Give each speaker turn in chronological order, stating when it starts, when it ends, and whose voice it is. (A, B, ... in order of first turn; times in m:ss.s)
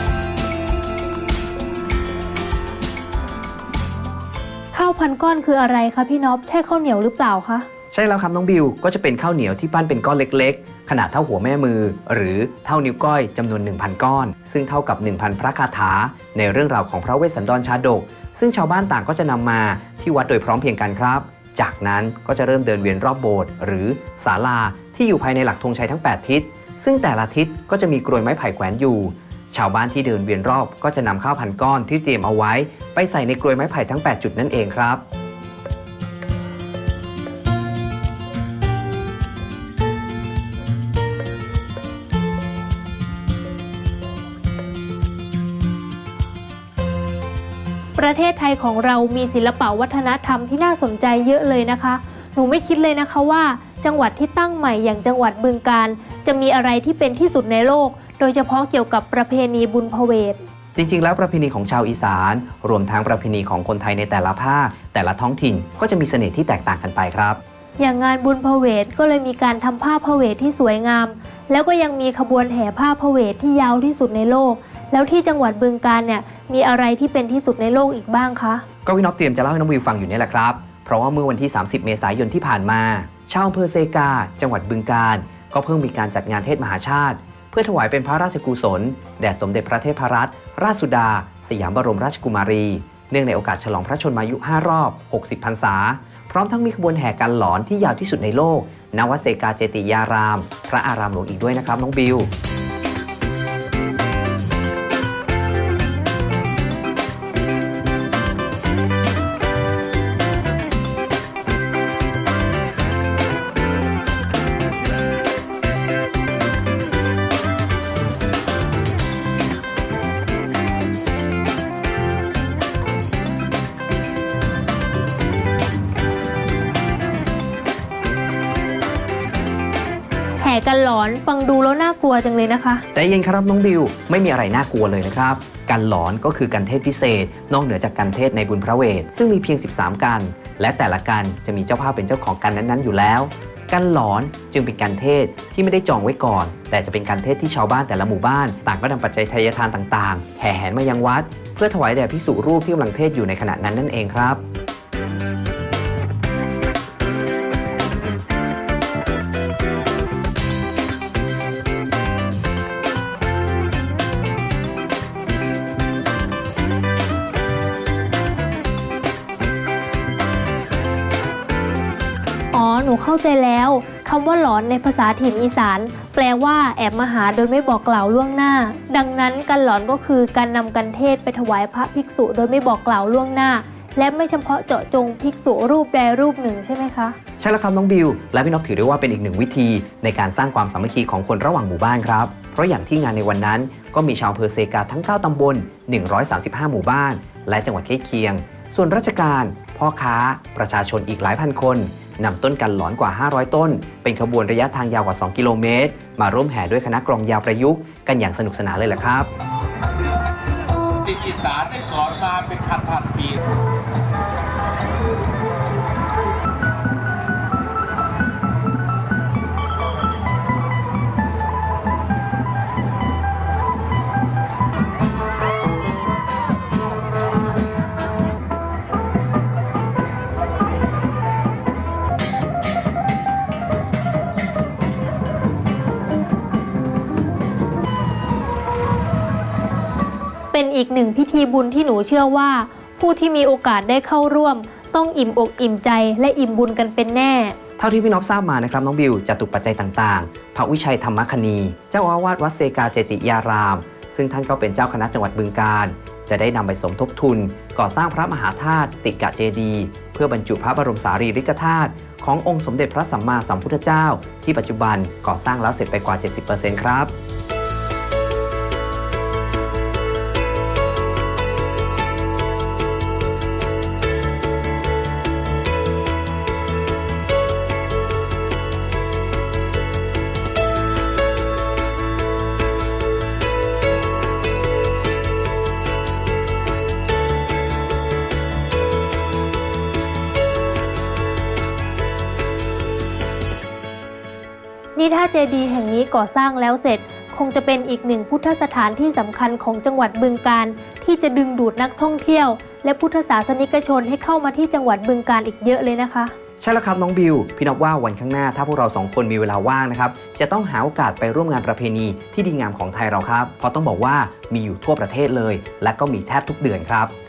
0:04.7-0:07.7 A
0:07.9-0:35.0 B
0:48.0-1:00.4 A
1:00.7-1:07.4 B
1:07.8-1:18.6 A
1:18.8-1:42.3 B
2:10.4-2:12.8 A
2:12.9-2:34.4 B
2:52.5-3:07.2 A
3:07.4-3:29.3 B
3:31.0-3:33.4 C
4:00.5-4:07.6 A
4:07.8-4:27.1 B
4:55.0-5:06.3 A
5:06.6-5:17.1 B